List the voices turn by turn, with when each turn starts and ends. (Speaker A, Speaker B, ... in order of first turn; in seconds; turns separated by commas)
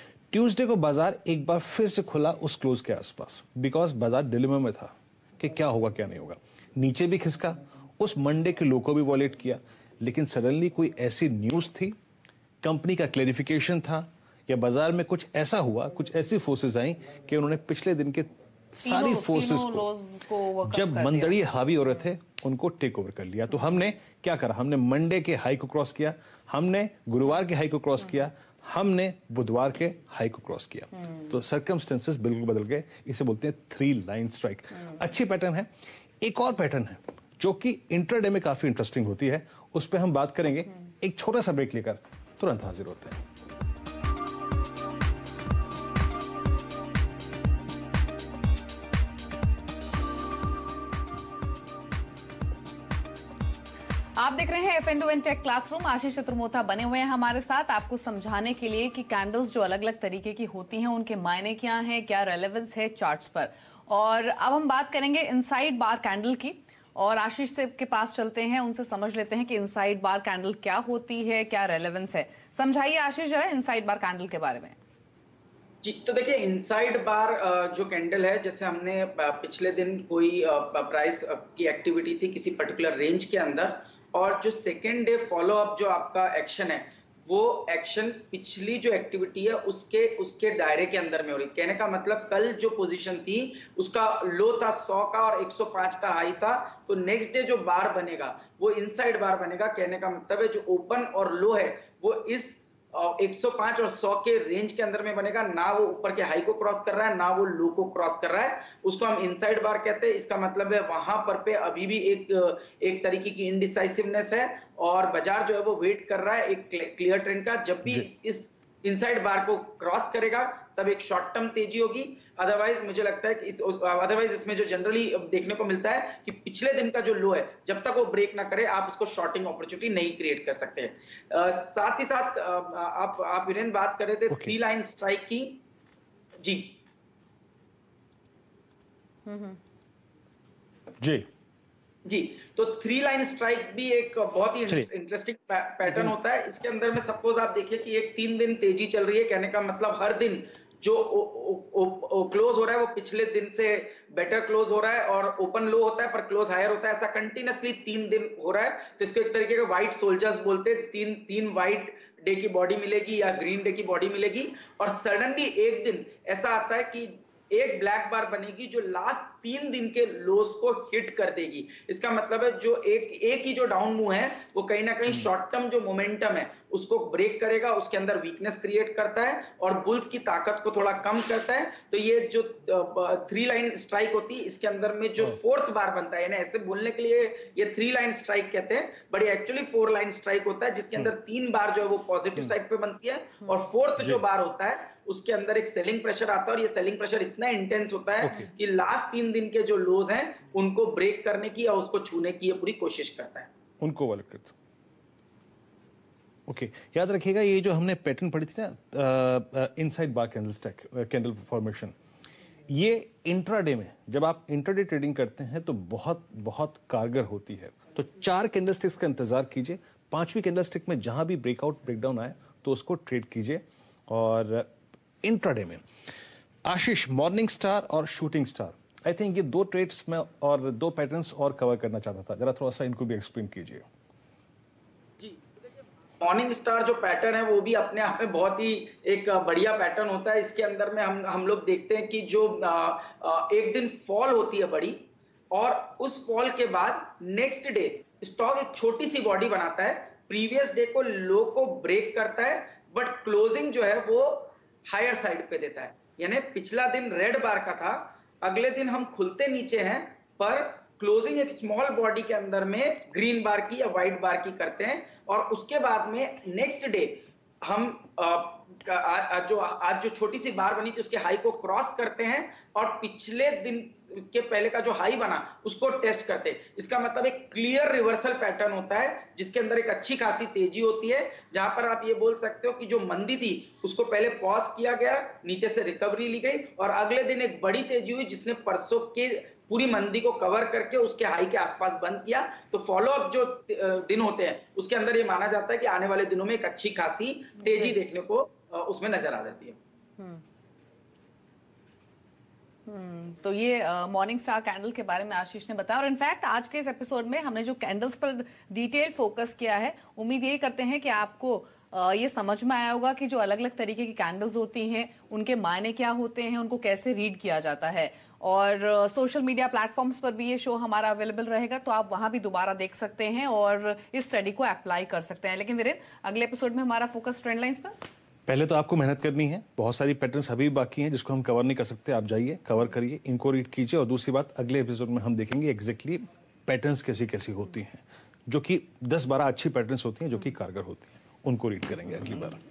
Speaker A: 0.3-11.9, Speaker A: 12.6-19.9, Speaker B: 18.8-21.4, Speaker A: 20.6-35.7, Speaker A: 36.2-43.2, Speaker B: 54.2-74.8, Speaker C: 75.8-135.6, Speaker A: 134.3-134.5, Speaker C: 136.4-136.8, Speaker B: 139.3-139.6, Speaker A: 141.0-141.3, Speaker C: 142.1-203.5, Speaker A: 145.8-146.1, Speaker A: 198.2-198.5, Speaker A: 203.8-204.5, Speaker A: 206.5-211.9, Speaker A: 212.7-224.7, Speaker A: 225.2-225.8, Speaker A: 226.6-233.8, Speaker C: 235.2-235.5, Speaker C: 236.2-299.8, Speaker B: 297.7-297.9, Speaker B: 302.9-327.9, Speaker A: 328.5-342.6